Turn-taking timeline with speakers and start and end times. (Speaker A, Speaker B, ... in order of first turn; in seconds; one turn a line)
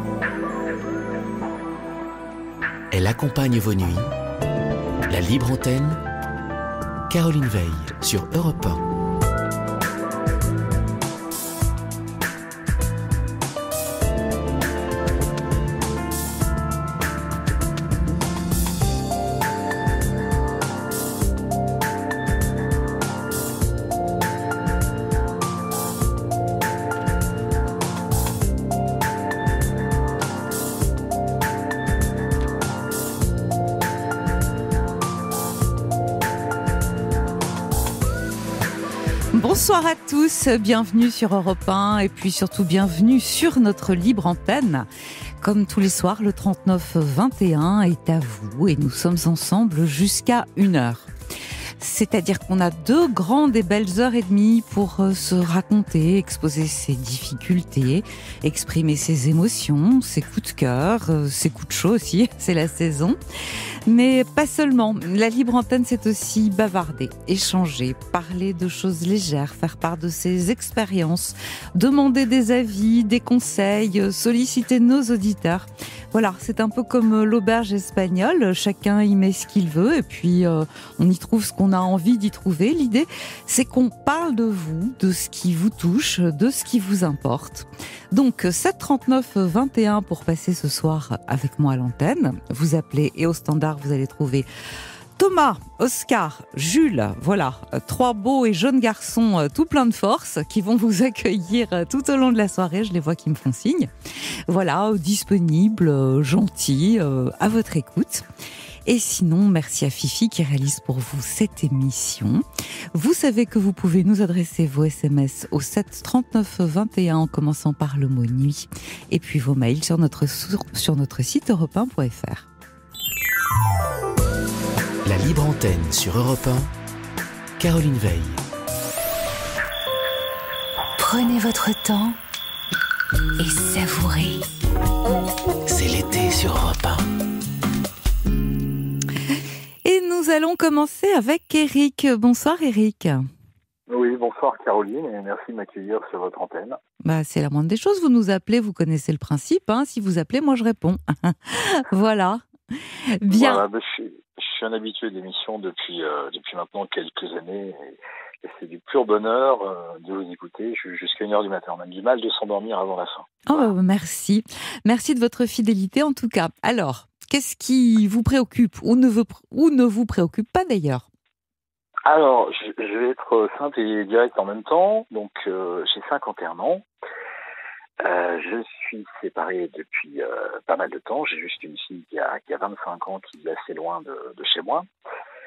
Speaker A: 2.9-4.1
Speaker A: 5.1-6.0
Speaker A: 7.1-8.8
Speaker B: 39.3-44.9
Speaker B: 45.4-51.1
Speaker B: 51.8-63.2
Speaker B: 63.9-94.5
Speaker B: 95.2-103.9
Speaker B: 104.5-108.2
Speaker B: 108.8-112.4
Speaker B: 112.9-122.5
Speaker A: 125.0-126.7
Speaker A: 127.6-128.4
Speaker C: 131.0-132.2
Speaker C: 133.4-134.4
Speaker A: 135.7-137.1
Speaker B: 139.8-143.3
Speaker D: 143.9-146.8
Speaker B: 147.0-153.6
Speaker D: 153.3-163.7
Speaker B: 163.5-171.1
Speaker D: 172.0-176.8
Speaker D: 178.0-184.9